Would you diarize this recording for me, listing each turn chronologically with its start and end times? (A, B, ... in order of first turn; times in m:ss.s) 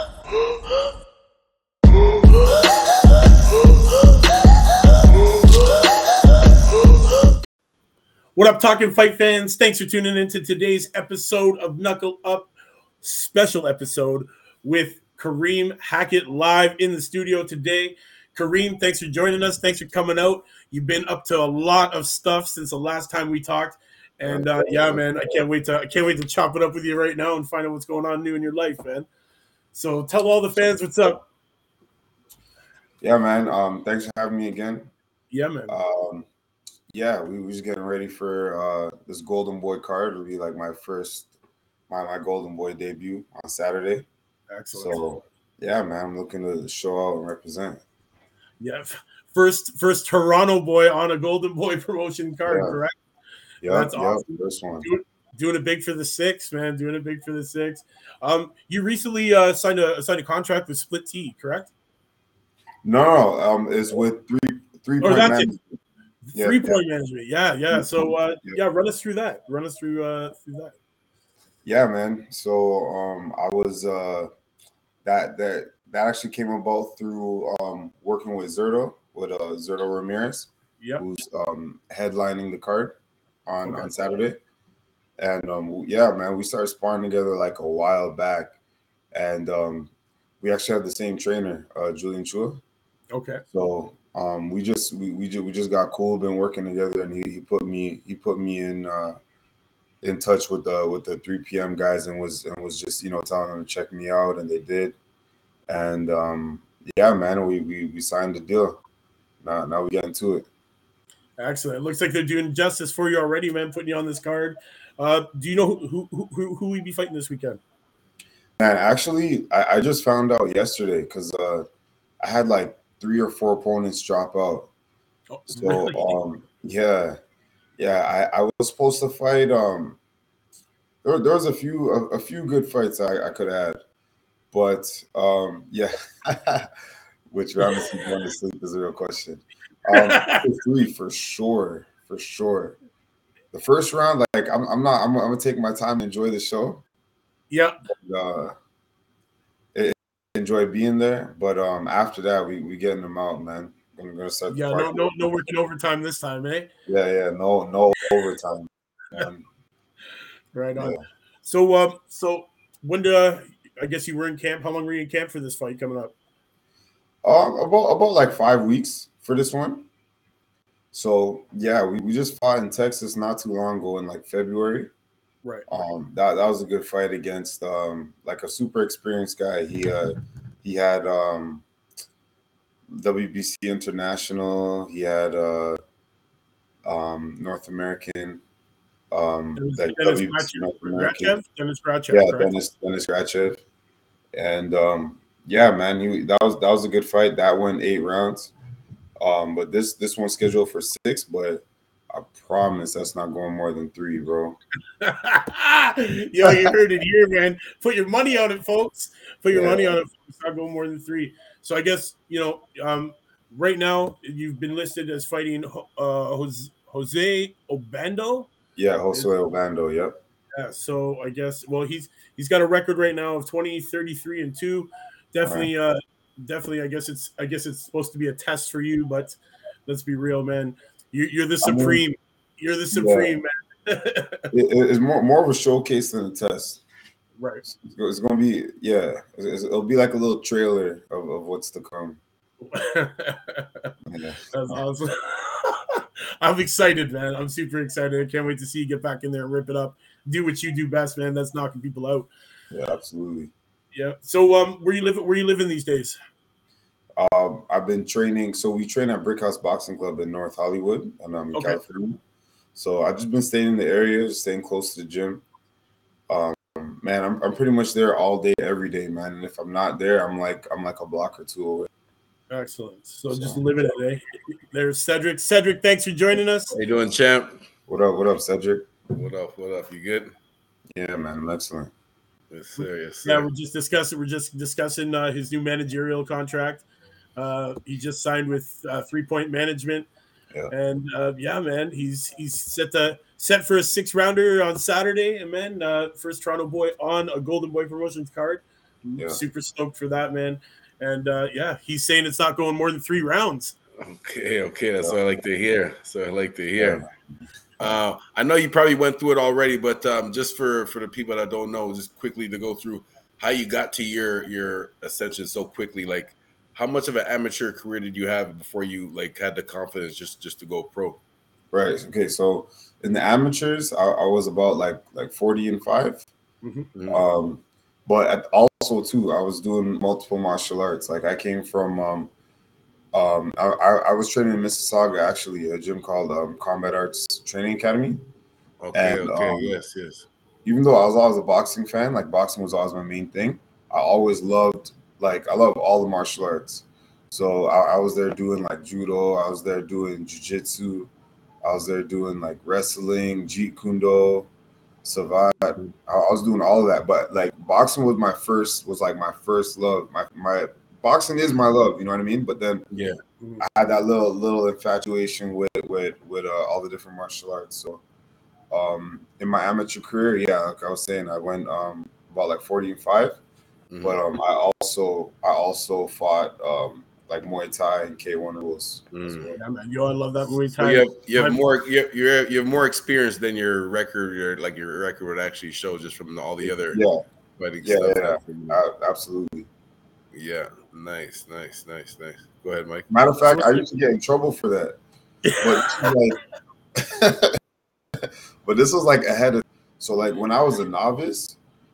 0:02.1-0:02.7 A
0:05.3-0:06.0 A
0:08.4-0:12.5 A
0:13.0-0:29.1 A
0:24.2-0:25.4 B
0:29.7-0:31.2 A
0:33.0-0:34.9 B
0:35.3-0:35.7 A
0:35.7-0:36.3 B
0:36.9-0:41.3 B
0:41.9-0:44.1 B
0:44.5-0:45.0 A
0:44.7-0:47.8 B
0:48.6-0:52.9 A
0:52.4-0:52.8 B
0:53.6-0:54.9 B
0:53.6-0:54.2 A
0:54.8-1:01.7 A
1:02.8-1:05.8 B
1:05.0-1:05.5 A
1:06.3-1:10.7 A
1:06.3-1:06.8 B
1:07.7-1:08.6 B
1:11.6-1:14.3 B
1:15.0-1:24.4 B
1:23.6-1:24.0 A
1:25.2-1:28.5 B
1:29.1-1:29.9 B
1:30.4-1:32.6 B
1:33.1-1:33.4 A
1:33.5-1:39.2 B
1:40.0-1:45.0 B
1:45.7-1:48.8 B
1:49.4-1:50.5 B
1:51.4-1:57.6 A
1:58.6-2:01.6 B
2:02.2-2:04.7 B
2:05.3-2:06.1 A
2:05.5-2:07.2 B
2:07.8-2:10.0 B
2:11.0-2:13.8 B
2:14.5-2:16.7 B
2:17.3-2:22.8 B
2:17.6-2:17.9 A
2:19.9-2:20.4 A
2:23.5-2:26.8 B
2:27.5-2:27.8 A
2:27.9-2:28.5 B
2:29.7-2:35.3 B
2:34.5-2:36.7 A
2:36.9-2:39.5 B
2:40.5-2:46.1 A
2:40.7-2:41.0 B
2:47.2-2:49.8 B
2:50.9-2:54.9 B
2:55.7-3:01.6 B
3:02.9-3:05.8 B
3:06.8-3:08.4 B
3:09.1-3:11.3 B
3:09.6-3:12.5 A
3:12.1-3:13.6 B
3:14.3-3:18.5 B
3:19.2-3:24.6 B
3:25.0-3:38.5 A
3:26.4-3:26.7 B
3:29.5-3:29.9 B
3:38.8-3:40.2 B
3:40.5-3:54.5 A
3:45.4-3:45.7 B
3:51.6-3:52.0 B
3:52.9-3:53.3 B
3:54.5-3:56.8 B
3:57.4-3:57.6 A
3:57.7-4:02.2 B
4:02.7-4:03.9 A
4:04.0-4:04.7 B
4:04.5-4:12.3 A
4:12.7-4:13.5 B
4:13.9-4:16.2 A
4:17.2-4:22.2 B
4:21.5-4:21.8 A
4:22.7-4:25.4 B
4:26.3-4:31.9 B
4:32.5-4:36.8 A
4:33.3-4:33.6 B
4:36.7-4:37.6 C
4:37.9-4:38.9 B
4:39.1-4:40.3 C
4:40.9-4:41.9 B
4:42.5-4:43.5 C
4:42.8-4:46.8 A
4:47.4-4:50.1 A
4:50.7-5:03.7 A
5:04.0-5:07.0 C
5:06.8-5:07.3 B
5:07.8-5:21.2 C
5:21.7-5:26.3 B
5:26.6-5:26.9 A
5:26.9-5:27.2 C
5:27.1-5:32.3 B
5:33.1-5:38.2 B
5:38.8-5:40.2 C
5:38.9-5:39.8 B
5:40.6-5:51.1 B
5:51.6-5:54.5 B
5:55.0-6:02.9 B
6:02.9-6:03.2 C
6:03.6-6:08.0 B
6:08.7-6:13.4 B
6:13.9-6:14.2 C
6:14.0-6:19.6 B
6:19.1-6:19.5 C
6:19.5-6:21.6 A
6:20.8-6:27.0 C
6:26.6-6:27.2 B
6:27.6-6:28.8 C
6:27.8-6:29.7 B
6:30.3-6:33.1 C
6:33.1-6:35.0 B
6:33.5-6:33.8 A
6:35.4-6:36.1 A
6:35.6-6:36.4 B
6:36.9-6:37.6 B
6:38.2-6:41.6 B